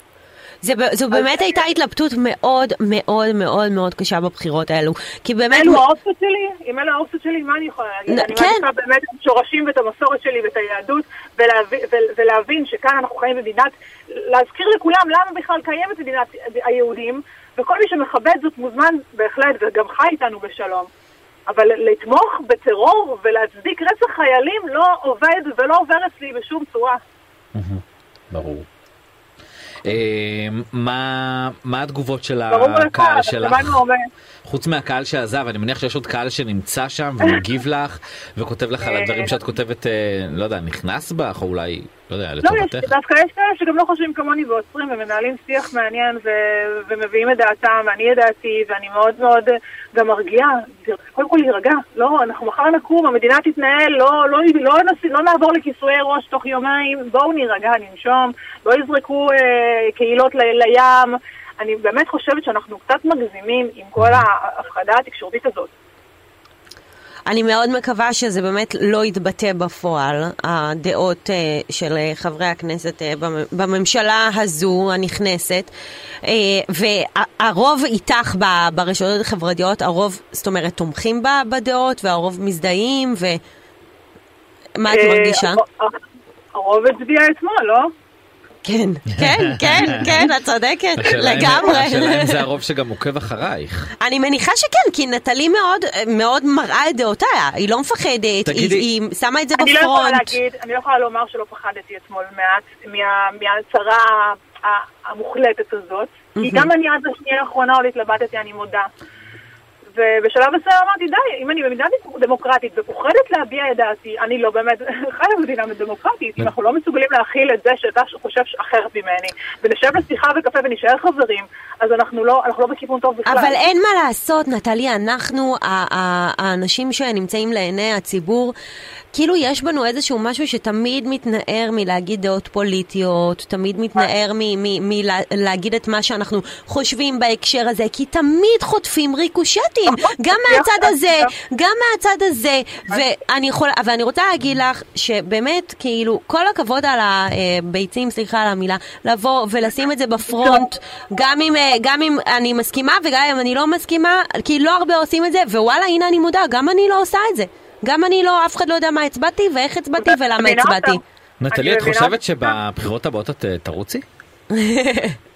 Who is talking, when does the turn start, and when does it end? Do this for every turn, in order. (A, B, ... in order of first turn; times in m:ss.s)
0:00.6-0:05.8 A
0:01.1-0:01.6 B
0:05.5-0:20.9 B
0:08.1-0:08.6 A
0:21.5-0:27.0 B
0:27.5-0:28.7 C
0:29.8-0:33.8 C
0:32.5-0:34.0 B
0:34.4-0:42.9 C
0:38.8-0:39.4 B
0:42.4-1:05.7 B
1:04.0-1:04.2 C
1:07.2-1:15.7 A
1:16.2-1:23.4 A
1:24.8-1:25.6 A
1:24.9-1:26.0 B
1:26.5-1:27.9 B
1:28.6-1:32.4 A
1:29.1-1:30.3 C
1:31.0-1:33.9 C
1:34.0-1:40.3 A
1:38.4-1:38.9 C
1:39.6-1:48.9 B
1:46.4-1:46.7 A
1:49.9-2:03.6 B
2:03.2-2:08.5 A
2:09.1-2:41.0 A
2:19.9-2:21.3 B
2:30.3-2:30.6 B
2:40.0-2:42.6 B
2:41.4-2:44.0 C
2:44.5-2:45.2 A